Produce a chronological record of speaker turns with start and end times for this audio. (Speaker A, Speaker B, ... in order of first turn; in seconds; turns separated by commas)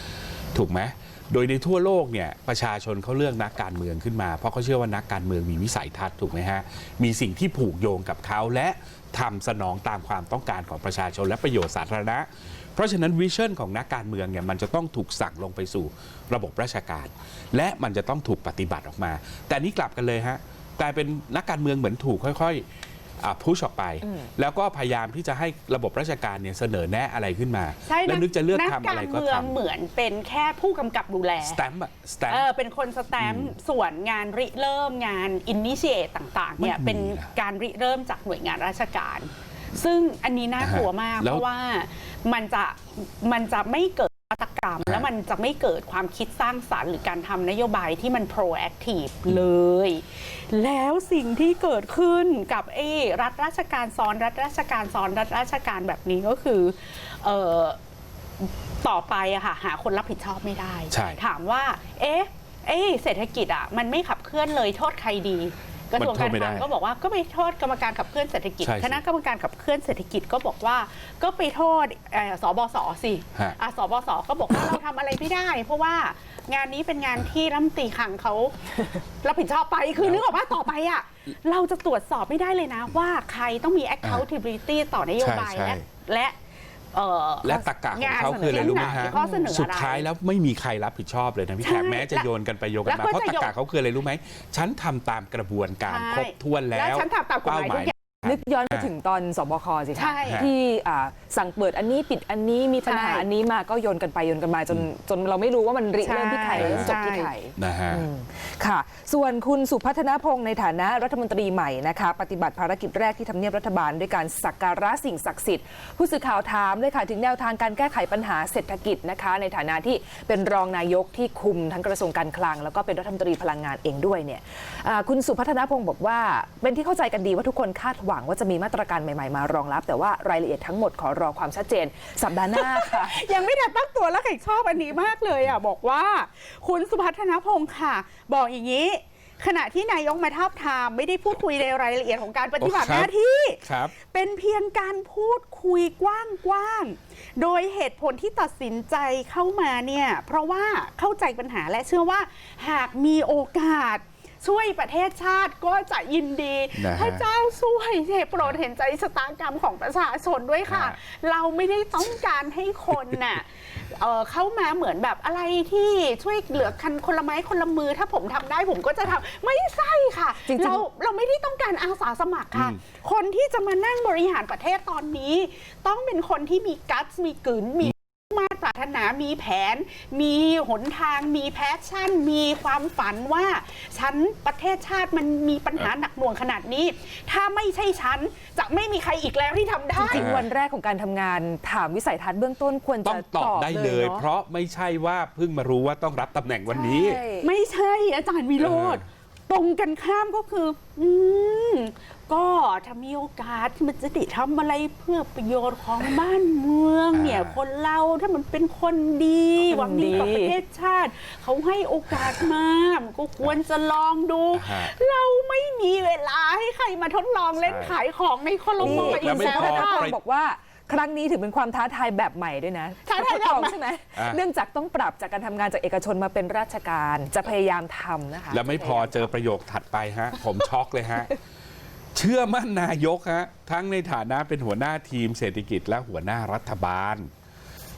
Speaker A: 0.5-22.6, Speaker A: 23.2-29.6, Speaker B: 27.9-31.6, Speaker A: 31.4-32.5, Speaker B: 32.3-57.8, Speaker A: 33.2-33.5, Speaker A: 36.6-37.3, Speaker A: 40.6-41.5, Speaker B: 58.4-86.4, Speaker A: 60.9-61.2, Speaker A: 66.0-66.7, Speaker A: 68.6-69.0, Speaker A: 80.0-80.2, Speaker A: 85.2-85.8, Speaker B: 86.9-90.1, Speaker A: 87.4-98.9, Speaker C: 88.1-89.5, Speaker B: 91.6-92.3, Speaker B: 92.9-93.5, Speaker B: 95.9-97.9, Speaker C: 98.2-133.3, Speaker B: 100.0-100.5, Speaker A: 100.3-100.5, Speaker B: 102.9-103.3, Speaker B: 106.0-107.3, Speaker A: 106.5-107.0, Speaker A: 107.6-108.1, Speaker B: 132.5-190.2, Speaker A: 142.6-143.1, Speaker A: 143.6-143.9, Speaker A: 156.8-157.3, Speaker A: 160.7-161.0, Speaker C: 170.5-170.8, Speaker A: 172.5-172.8, Speaker C: 190.0-194.2, Speaker A: 190.1-190.5, Speaker A: 193.0-197.2, Speaker C: 196.7-197.5, Speaker B: 197.4-220.1, Speaker A: 198.6-199.0, Speaker A: 207.1-207.6, Speaker C: 209.7-210.6, Speaker A: 214.5-214.9, Speaker A: 217.6-217.9, Speaker A: 218.8-220.2, Speaker C: 218.8-229.3, Speaker B: 223.1-223.8, Speaker A: 228.5-231.4, Speaker A: 232.1-237.3